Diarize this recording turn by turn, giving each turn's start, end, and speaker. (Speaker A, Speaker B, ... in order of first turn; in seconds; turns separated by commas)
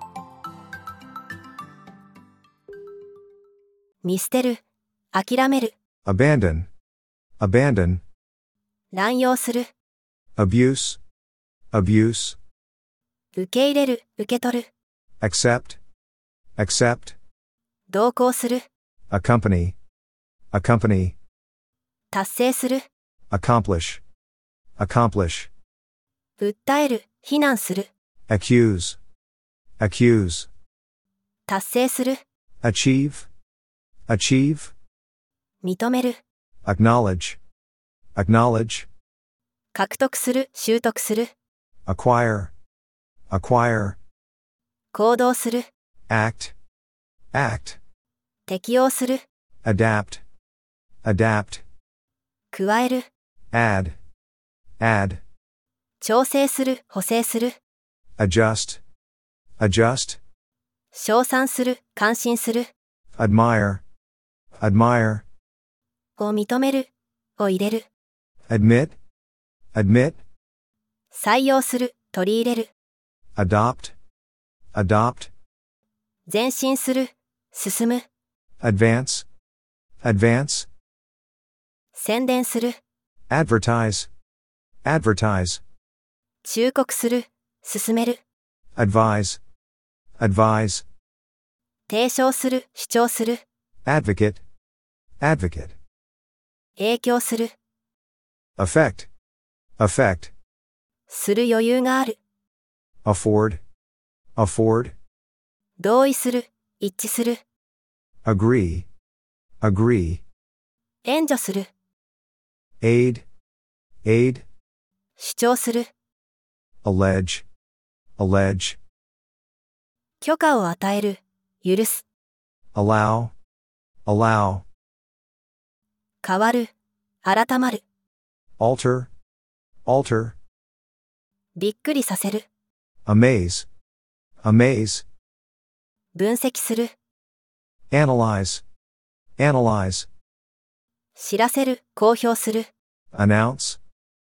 Speaker A: 4.0-4.6, Speaker A: 5.1-5.7, Speaker B: 6.0-6.7, Speaker B: 7.4-8.0, Speaker A: 8.9-9.7, Speaker B: 10.3-11.0, Speaker B: 11.7-12.4, Speaker A: 13.3-14.7, Speaker B: 15.2-15.8, Speaker B: 16.6-17.2, Speaker A: 17.9-18.6, Speaker B: 19.1-19.8, Speaker B: 20.5-21.1, Speaker A: 22.1-22.9, Speaker B: 23.3-24.0, Speaker B: 24.8-25.5, Speaker A: 26.4-27.9, Speaker B: 28.3-29.0, Speaker B: 29.8-30.5, Speaker A: 31.5-32.2, Speaker B: 32.6-33.3, Speaker B: 34.1-34.7, Speaker A: 35.6-36.2, Speaker B: 36.6-37.4, Speaker B: 38.1-38.9, Speaker A: 39.7-41.3, Speaker B: 41.9-42.5, Speaker B: 43.3-44.0, Speaker A: 44.9-45.7, Speaker B: 46.1-46.5, Speaker B: 47.3-47.8, Speaker A: 48.5-49.2, Speaker B: 49.6-50.2, Speaker B: 51.0-51.6, Speaker A: 52.5-53.1, Speaker B: 53.5-54.0, Speaker B: 54.8-55.2, Speaker A: 56.0-57.6, Speaker B: 58.2-58.8, Speaker B: 59.6-60.2, Speaker A: 60.9-62.7, Speaker B: 63.1-63.8, Speaker B: 64.6-65.2, Speaker A: 66.2-67.8, Speaker B: 68.5-68.9, Speaker B: 69.7-70.2, Speaker A: 71.1-72.7, Speaker B: 73.3-73.9, Speaker B: 74.7-75.3, Speaker A: 76.3-78.0, Speaker B: 78.6-79.2, Speaker B: 80.0-80.7, Speaker A: 81.9-82.8, Speaker B: 83.3-84.1, Speaker B: 84.8-85.6, Speaker A: 86.4-88.2, Speaker B: 88.8-89.4, Speaker B: 90.2-90.8, Speaker A: 91.9-93.4, Speaker B: 93.8-94.4, Speaker B: 95.2-95.8, Speaker A: 96.8-97.5, Speaker B: 98.6-99.1, Speaker B: 99.8-100.3, Speaker A: 101.1-102.2, Speaker B: 103.0-103.6, Speaker B: 104.3-104.9, Speaker A: 105.8-107.4, Speaker B: 108.2-108.9, Speaker B: 109.6-110.2, Speaker A: 111.0-111.7, Speaker B: 112.8-113.2, Speaker B: 114.0-114.4, Speaker A: 115.2-115.9, Speaker B: 116.8-117.4, Speaker B: 118.2-118.8, Speaker A: 120.2-122.0, Speaker B: 122.7-123.3, Speaker B: 124.0-124.7, Speaker A: 126.2-126.7, Speaker A: 127.2-127.8, Speaker B: 128.6-129.1, Speaker B: 129.8-130.3, Speaker A: 131.6-132.4, Speaker B: 133.1-133.7, Speaker B: 134.4-135.0, Speaker A: 136.1-136.9, Speaker B: 137.9-138.6, Speaker B: 139.4-140.1, Speaker A: 141.2-142.7, Speaker B: 143.1-143.8